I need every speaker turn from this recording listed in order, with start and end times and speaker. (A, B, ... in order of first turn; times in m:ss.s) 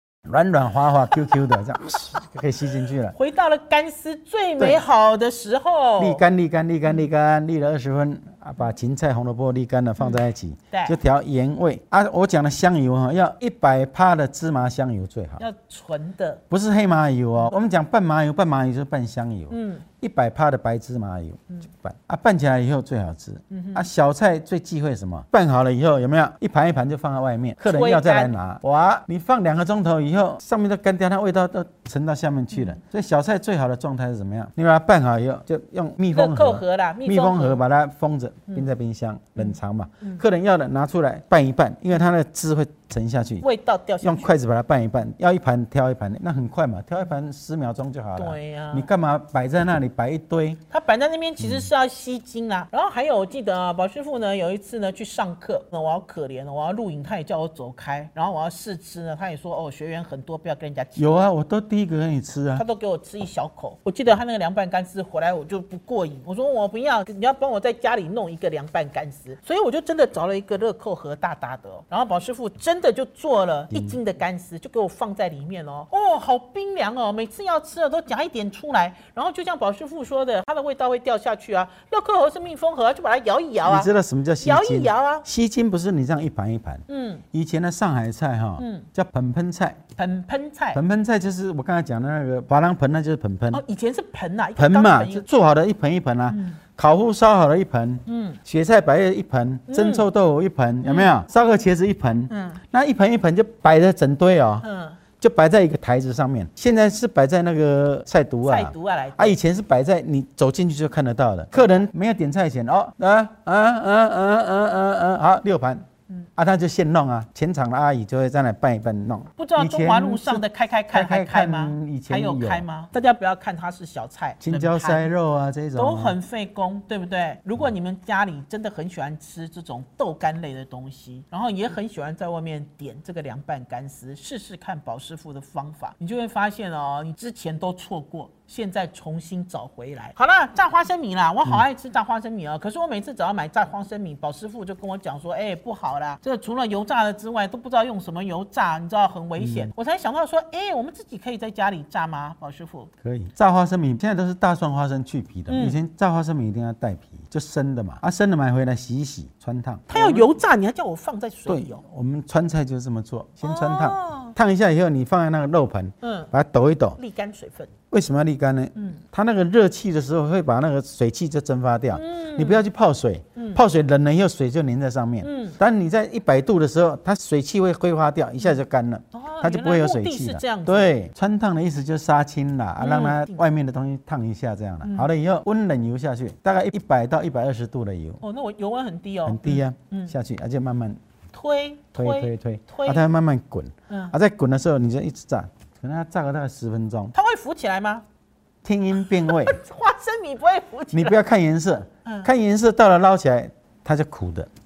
0:00.2-0:03.2 A
0:03.1-0:06.2 B
0:04.6-0:04.8 A
0:06.0-0:15.4 A
0:10.7-0:11.0 B
0:15.4-0:16.4 B
0:16.5-0:43.4 A
0:19.5-0:19.8 B
0:23.5-0:23.9 B
0:27.6-0:28.3 B
0:36.1-0:37.6 B
0:39.4-0:40.2 B
0:43.4-0:44.3 B
0:44.0-0:50.6 A
0:48.1-0:48.9 B
0:50.7-1:01.1 B
0:51.4-0:51.7 A
1:01.0-1:02.6 A
1:02.6-1:25.2 B
1:13.7-1:14.0 A
1:23.6-1:29.8 A
1:26.9-1:27.2 B
1:28.6-1:28.9 B
1:30.0-1:30.8 B
1:30.7-1:33.6 A
1:33.5-1:35.3 B
1:34.6-1:44.7 A
1:36.3-1:36.6 B
1:38.1-1:38.4 B
1:39.7-1:40.1 B
1:40.8-1:41.2 B
1:42.3-1:42.6 B
1:44.6-1:45.0 B
1:45.2-2:02.7 A
1:48.4-1:49.4 B
1:59.4-2:05.1 B
2:04.4-2:06.2 A
2:05.8-2:32.9 B
2:29.4-2:29.7 A
2:33.0-2:40.3 A
2:35.5-2:35.8 B
2:39.9-2:41.8 B
2:41.5-2:47.0 A
2:43.4-2:44.3 B
2:46.0-2:46.3 B
2:47.0-2:47.7 B
2:47.9-3:08.2 A
2:48.8-2:49.0 B
2:51.9-2:52.6 B
2:53.4-2:53.6 B
2:55.2-2:55.6 B
2:59.1-3:00.9 B
3:02.8-3:03.4 B
3:04.8-3:05.1 B
3:08.2-3:10.1 B
3:09.2-3:11.0 A
3:11.3-3:13.0 B
3:11.9-3:17.1 A
3:13.9-3:14.2 B
3:17.1-3:18.0 B
3:18.6-3:19.6 A
3:19.1-3:21.2 B
3:20.9-3:24.5 A
3:22.0-3:22.3 B